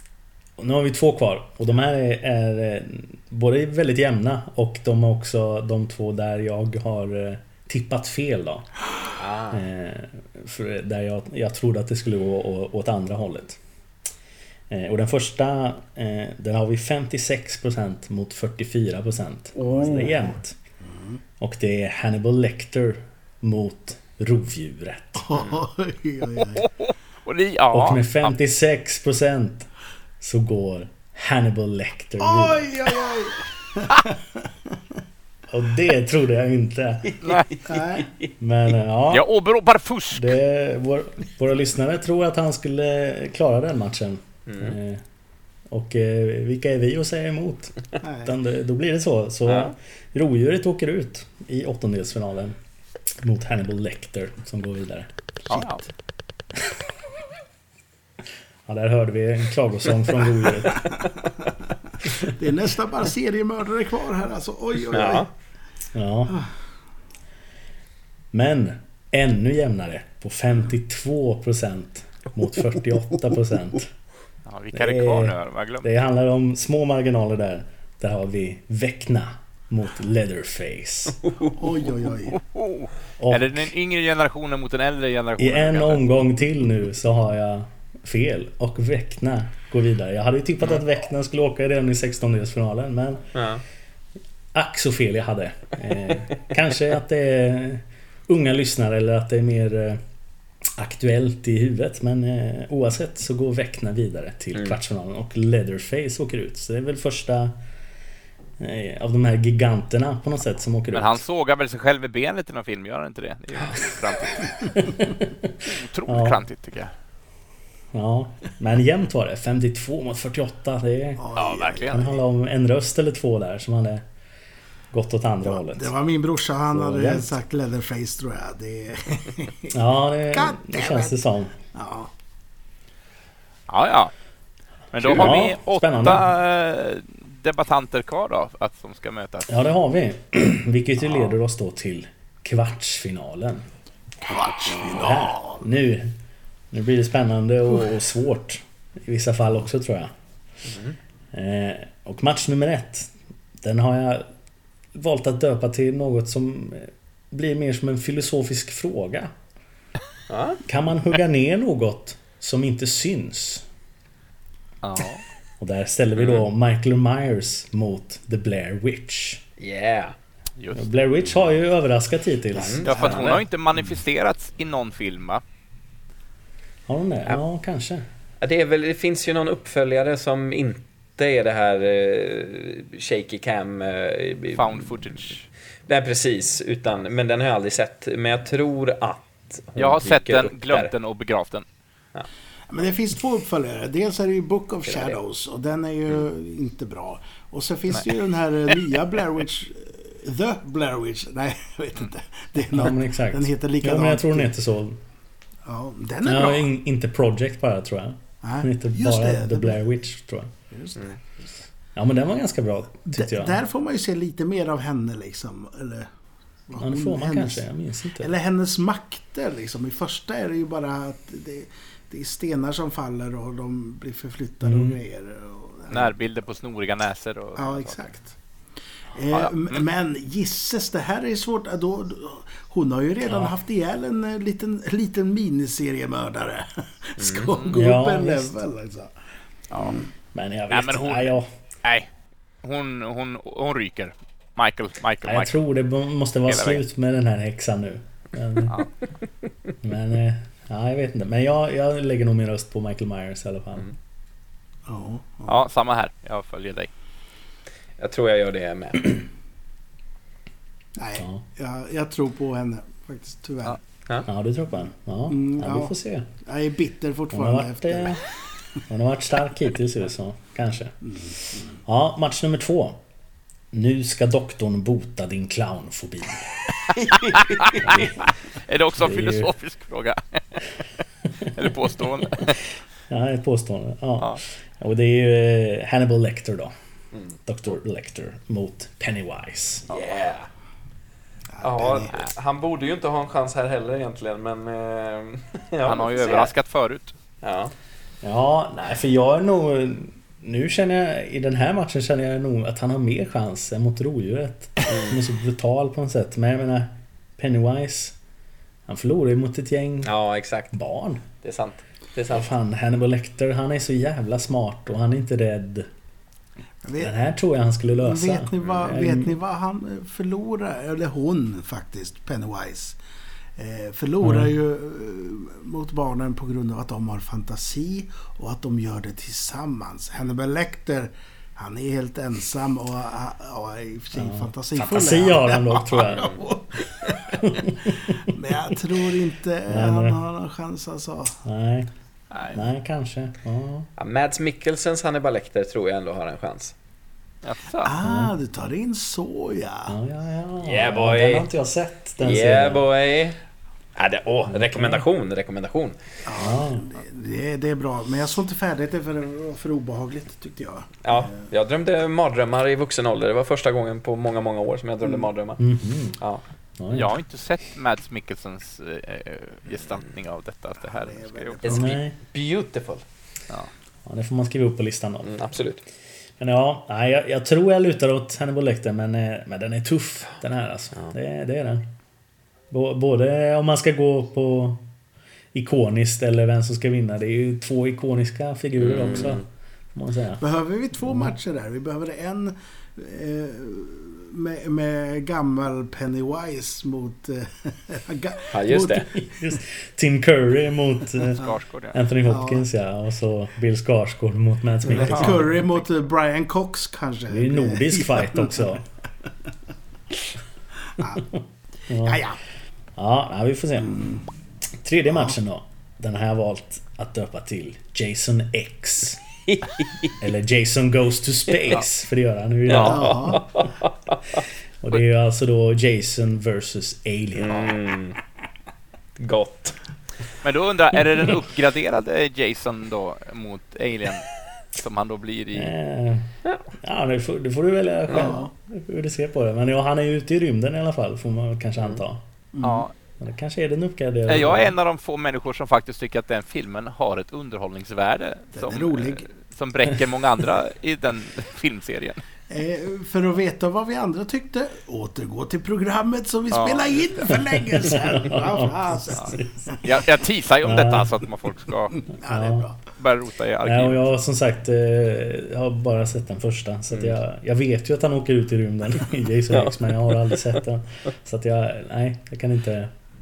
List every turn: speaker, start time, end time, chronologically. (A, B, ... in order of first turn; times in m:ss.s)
0:00.6-0:08.8 A
0:09.2-0:09.6 B
0:09.5-0:13.6 A
0:14.7-0:20.6 A
0:19.6-0:21.2 C
0:21.4-0:25.3 A
0:25.2-0:26.7 C
0:26.5-0:28.3 D
0:27.7-0:29.7 A
0:30.2-0:32.8 A
0:32.2-0:34.4 C
0:35.5-0:37.2 A
0:37.2-0:37.6 D
0:37.6-0:38.1 C
0:38.4-0:39.3 A
0:39.1-0:40.4 D
0:40.1-0:45.0 A
0:44.5-0:44.8 B
0:45.7-0:52.6 A
0:48.0-0:48.4 C
0:49.5-0:49.7 B
0:53.2-0:55.1 A
0:55.5-0:55.8 D
0:55.5-0:55.9 C
0:58.7-1:01.0 A
1:00.7-1:01.6 C
1:02.2-1:05.3 C
1:04.9-1:05.3 B
1:05.9-1:06.4 A
1:08.3-1:13.9 A
1:14.4-1:15.9 D
1:14.7-1:21.2 A
1:21.6-1:22.4 C
1:22.4-1:26.1 D
1:23.2-1:23.7 A
1:25.4-1:33.3 A
1:33.4-1:33.6 B
1:34.5-1:40.0 A
1:40.8-1:47.5 A
1:48.6-1:51.2 A
1:50.9-1:54.9 D
1:53.6-1:53.9 B
1:54.8-1:55.5 A
1:55.6-1:56.9 D
1:56.1-1:56.4 A
1:57.9-2:01.3 A
2:01.2-2:02.2 C
2:01.4-2:02.2 D
2:01.8-2:04.0 A
2:04.9-2:05.9 A
2:05.4-2:09.7 C
2:06.7-2:07.3 A
2:09.7-2:11.6 A
2:10.3-2:11.2 C
2:11.7-2:12.1 C
2:13.7-2:14.1 D
2:14.9-2:19.6 D
2:15.0-2:16.3 A
2:19.5-2:23.7 A
2:21.0-2:21.3 D
2:24.2-2:25.6 C
2:24.7-2:26.1 A
2:26.7-2:30.1 A
2:30.6-2:31.0 B
2:31.3-2:33.1 A
2:33.6-2:34.2 A
2:35.0-2:39.3 A
2:40.3-2:40.6 B
2:40.7-2:43.7 A
2:44.8-2:45.2 D
2:45.6-2:49.4 A
2:46.2-2:46.5 B
2:49.6-2:50.2 B
2:50.6-2:50.9 D
2:50.7-2:53.4 A
2:52.6-2:53.4 B
2:52.8-2:55.4 D
2:56.9-2:58.0 A
2:58.4-3:05.1 B
3:04.6-3:05.5 D
3:05.9-3:10.9 B
3:09.8-3:11.6 D
3:12.7-3:24.5 C
3:14.8-3:15.2 B
3:22.7-3:25.0 A
3:25.7-3:26.7 C
3:26.2-3:30.5 A
3:28.4-3:29.8 C
3:30.7-3:31.1 C
3:32.0-3:33.6 A
3:33.2-3:36.1 C
3:36.7-3:46.2 C
3:36.8-3:38.3 A
3:44.6-3:45.0 A
3:45.9-3:48.0 D
3:47.6-3:48.4 C
3:49.2-3:59.1 C
3:49.3-3:49.8 D
3:53.3-3:53.6 A
3:57.2-3:57.5 B
3:57.5-3:57.8 D
3:57.7-3:58.5 A
3:59.7-4:00.0 D
4:00.3-4:01.5 A
4:00.7-4:02.1 D
4:02.6-4:05.6 D
4:05.2-4:08.8 A
4:06.5-4:06.8 D
4:09.8-4:13.9 A
4:14.9-4:15.7 C
4:15.5-4:16.9 D
4:18.0-4:19.3 B
4:21.0-4:23.8 C
4:21.2-4:21.4 A
4:24.3-4:26.3 A
4:25.3-4:28.4 C
4:27.3-4:28.2 A
4:28.9-4:31.0 A
4:31.0-4:31.7 C
4:31.5-4:33.0 A
4:33.7-4:36.6 A
4:37.0-4:38.1 D
4:37.8-4:38.3 A
4:38.6-4:42.7 D
4:39.0-4:39.5 A
4:43.1-4:46.7 A
4:47.4-4:49.9 A
4:49.9-4:50.5 B
4:51.5-4:52.2 C
4:51.6-4:56.6 B
4:55.8-4:57.1 D
4:57.4-4:57.7 B
4:58.2-5:08.2 A
5:08.9-5:10.1 A
5:10.0-5:10.7 B
5:10.7-5:11.2 A
5:11.4-5:12.5 B
5:12.3-5:15.9 A
5:16.8-5:17.1 C
5:17.0-5:19.4 A
5:18.0-5:23.0 C
5:23.6-5:37.6 C
5:24.2-5:24.5 A
5:34.2-5:36.2 A
5:36.0-5:36.4 B
5:37.6-5:38.2 A
5:38.2-5:41.4 C
5:39.7-5:40.2 A
5:41.4-5:41.9 A
5:42.3-5:42.7 D
5:42.5-5:43.9 A
5:44.0-5:46.7 B
5:47.4-5:47.9 D
5:47.8-5:50.0 C
5:48.0-5:48.3 A
5:49.9-5:52.9 A
5:50.6-5:51.5 B
5:52.2-5:53.4 B
5:54.0-5:56.0 B
5:54.5-5:55.0 A
5:56.2-6:01.5 C
5:56.4-5:56.8 A
6:01.0-6:05.6 B
6:05.6-6:06.2 A
6:06.8-6:07.2 A
6:06.9-6:12.0 D
6:10.8-6:11.9 C
6:11.6-6:13.0 B
6:11.6-6:12.2 A
6:14.1-6:15.4 A
6:15.2-6:15.8 B
6:16.4-6:21.8 A
6:22.7-6:24.8 A
6:25.5-6:29.4 A
6:28.8-6:29.4 B
6:30.0-6:30.4 A
6:30.4-6:39.1 C
6:31.1-6:31.3 A
6:38.5-6:39.1 B
6:39.1-6:45.6 A
6:41.3-6:42.0 D
6:42.3-6:42.7 C
6:44.9-6:48.8 C
6:45.0-6:45.4 D
6:47.3-6:48.8 A
6:51.0-6:51.2 C
6:51.9-6:52.2 A
6:52.0-6:52.4 C
6:53.0-6:54.0 A
6:53.9-6:54.2 C
6:54.8-6:59.2 A
6:55.1-6:55.4 C
6:59.5-7:00.1 B
7:00.2-7:03.4 A
7:02.7-7:04.4 B
7:02.8-7:03.4 C
7:04.8-7:07.8 A
7:07.4-7:08.2 B
7:09.2-7:09.8 B
7:10.4-7:15.7 D
7:15.5-7:22.2 A
7:18.1-7:18.4 B
7:18.2-7:18.5 C
7:22.5-7:22.9 C
7:22.6-7:22.9 D
7:23.2-7:24.8 A
7:24.3-7:32.2 D
7:28.5-7:29.3 C
7:32.5-7:40.0 C
7:36.5-7:37.3 D
7:38.3-7:39.6 A
7:39.1-7:42.0 D
7:40.6-7:41.1 A
7:41.9-7:43.0 C
7:42.2-7:42.7 A
7:42.9-7:44.1 D
7:43.6-7:52.9 A
7:49.5-7:50.4 B